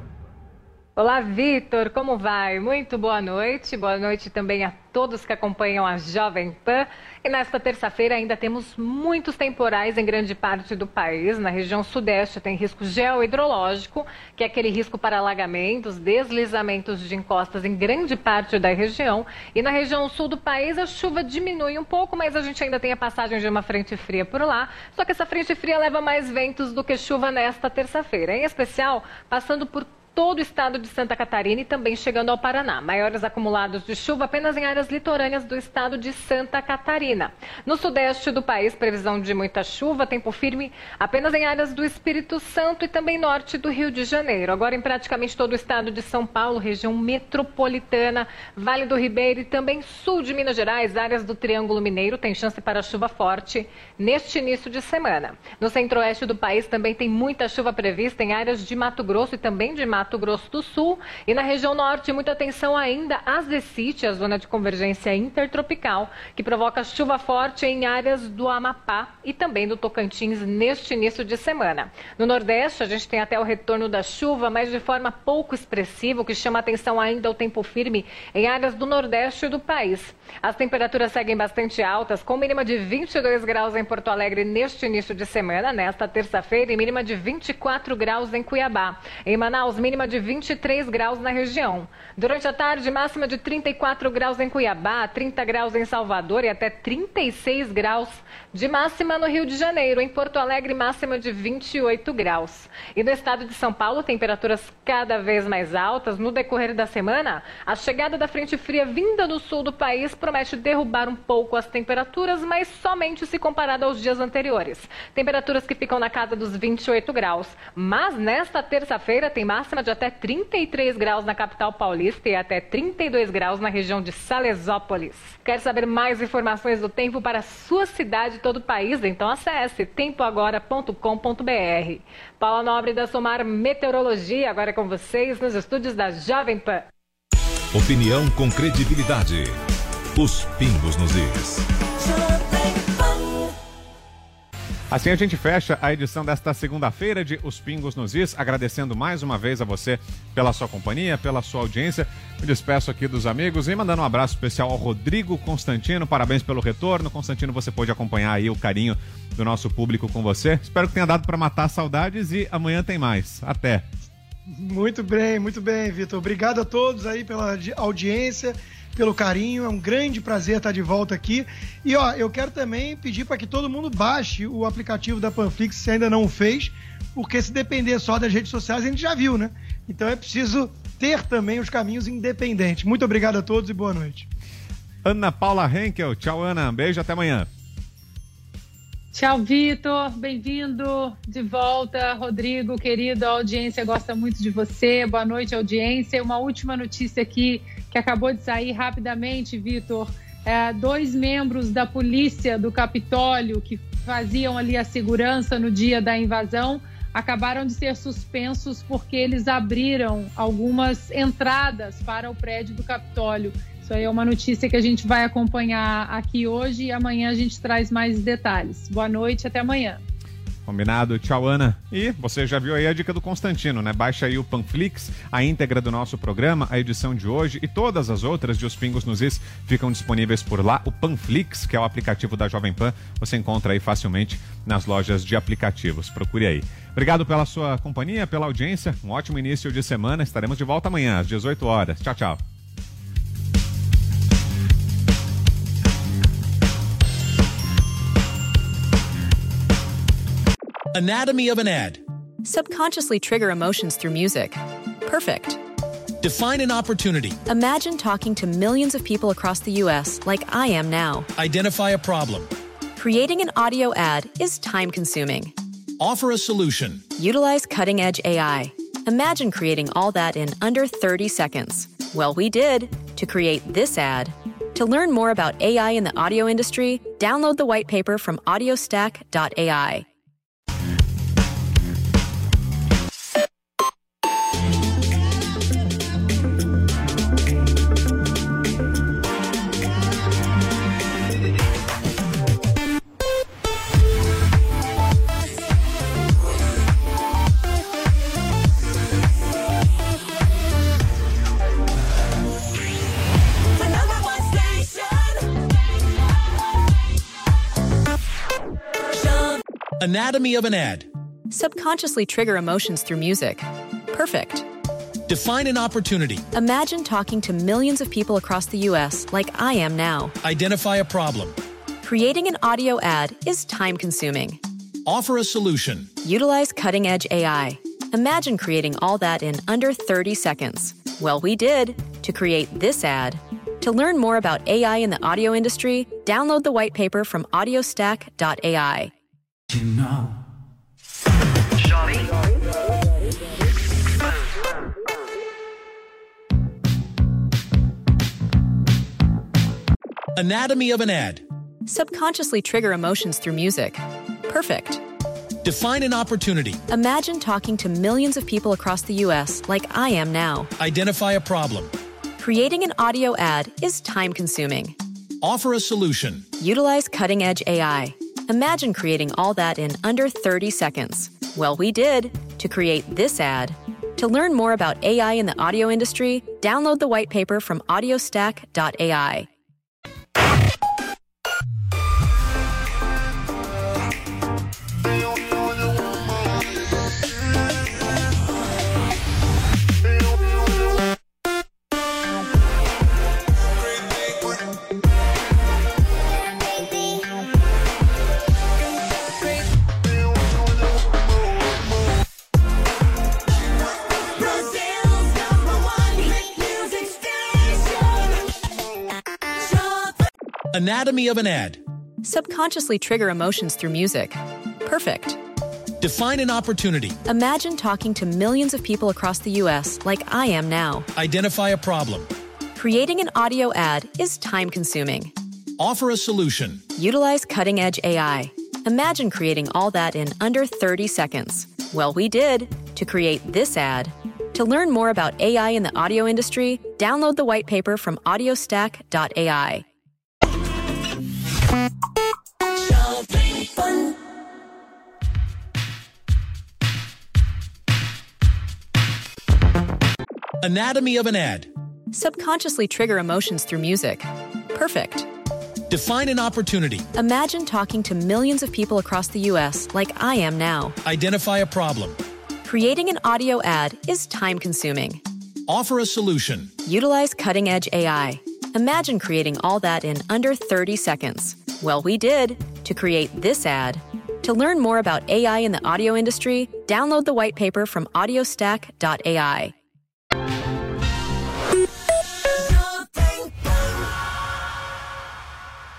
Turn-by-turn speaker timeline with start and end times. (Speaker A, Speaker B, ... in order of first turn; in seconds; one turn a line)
Speaker A: 1.0-136.8
Speaker B: 137.7-139.5
Speaker B: 140.2-141.6
Speaker C: 144.9-163.8
Speaker D: 164.6-184.3
Speaker C: 185.0-187.5
Speaker E: 189.1-220.0
Speaker C: 220.7-242.4
Speaker F: 250.9-252.0
Speaker G: 252.4-255.6
Speaker F: 256.2-257.4
Speaker G: 257.5-261.3
Speaker F: 261.4-262.5
Speaker G: 263.0-265.5
Speaker F: 266.0-267.0
Speaker G: 267.2-280.1
Speaker F: 310.0-311.1
Speaker G: 311.5-314.7
Speaker F: 315.3-316.4
Speaker G: 316.5-320.4
Speaker F: 320.4-321.6
Speaker G: 322.0-324.6
Speaker F: 325.1-326.1
Speaker G: 326.2-339.1
Speaker F: 350.4-351.4
Speaker G: 351.9-355.0
Speaker F: 355.6-356.8
Speaker G: 356.9-360.7
Speaker F: 360.8-361.9
Speaker G: 362.4-364.9
Speaker F: 365.4-366.4
Speaker G: 366.6-379.5
Speaker F: 410.7-411.8
Speaker G: 412.2-415.4
Speaker F: 416.0-417.2
Speaker G: 417.3-421.1
Speaker F: 421.1-422.3
Speaker G: 422.8-425.3
Speaker F: 425.8-426.8
Speaker G: 427.0-439.9
Speaker F: 450.6-451.7
Speaker G: 452.1-455.3
Speaker F: 455.9-457.1
Speaker G: 457.1-461.0
Speaker F: 461.0-462.2
Speaker G: 462.6-465.2
Speaker F: 465.7-466.7
Speaker G: 466.8-479.7